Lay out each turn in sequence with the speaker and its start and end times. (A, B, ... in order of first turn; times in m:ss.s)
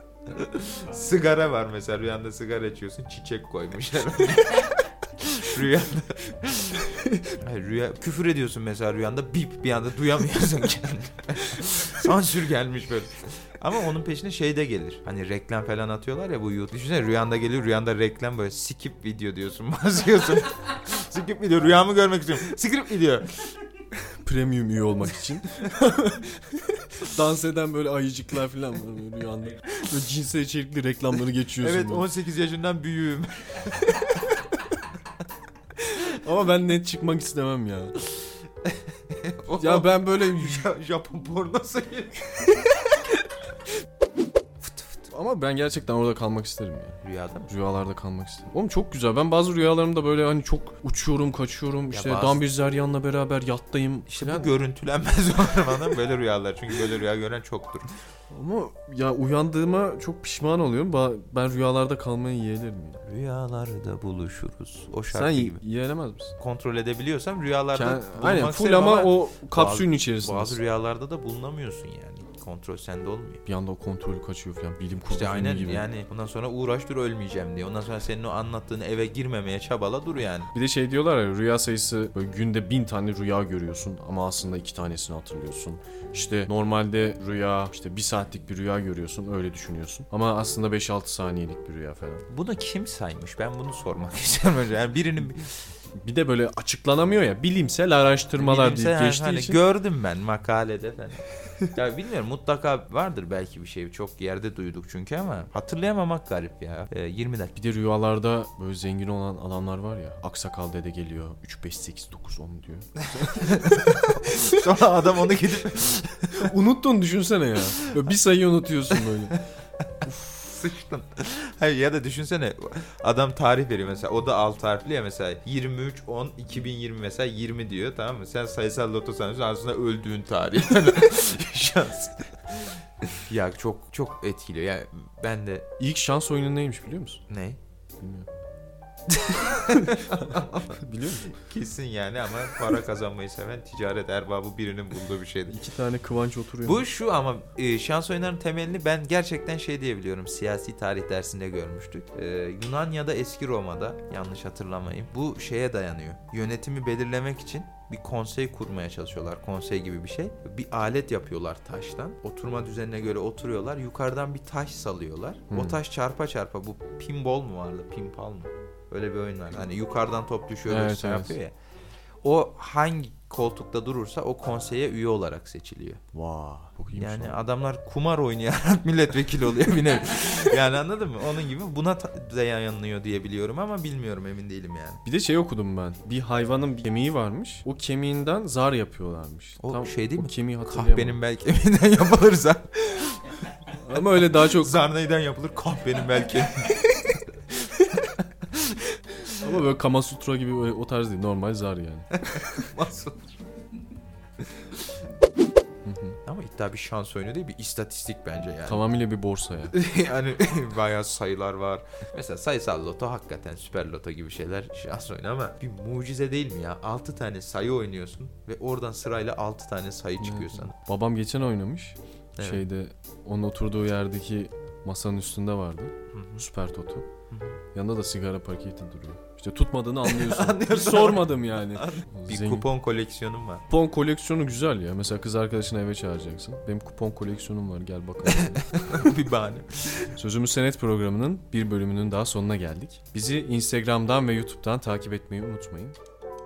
0:00.3-0:23.5 A
0:24.2-0:32.0 B
0:31.6-0:34.5 A
0:35.9-0:38.0 B
0:38.6-0:42.2 A
0:39.6-0:40.7 B
0:44.6-0:45.1 A
0:45.1-0:54.5 B
0:47.0-0:47.5 A
0:51.9-0:52.4 A
0:54.1-0:57.9 A
0:58.3-1:03.0 B
1:03.0-1:05.6 A
1:05.1-1:06.3 B
1:06.4-1:13.4 A
1:07.7-1:10.6 B
1:13.4-1:15.9 B
1:15.1-1:20.5 A
1:20.5-1:32.2 B
1:32.3-1:35.7 A
1:35.9-1:39.6 B
1:38.4-1:47.5 A
1:47.5-1:54.4 B
1:53.2-1:56.5 A
1:56.4-1:59.4 B
1:57.7-1:58.0 A
1:58.9-1:59.3 A
2:00.0-2:15.6 A
2:15.8-2:17.2 B
2:17.3-2:17.6 A
2:18.0-2:18.3 B
2:19.1-2:20.8 A
2:19.8-2:21.3 B
2:21.3-2:25.6 A
2:25.5-2:26.8 B
2:26.6-2:51.5 A
2:45.5-2:45.8 B
2:50.7-2:51.4 B
2:52.2-2:56.0 A
2:56.1-2:57.4 B
2:56.9-3:05.0 A
3:05.0-3:11.2 B
3:09.6-3:13.2 A
3:13.7-3:14.8 B
3:14.1-3:18.8 A
3:19.4-3:22.1 B
3:22.2-3:23.4 A
3:25.8-3:26.2 B
3:26.2-3:28.8 A
3:28.6-3:29.7 B
3:29.7-3:40.7 A
3:40.2-3:47.0 B
3:42.4-3:42.6 A
3:46.1-3:46.4 A
3:47.3-3:47.6 A
3:47.7-3:52.6 B
3:50.0-3:53.6 A
3:53.7-3:58.6 B
3:58.2-4:00.1 A
4:00.2-4:06.0 B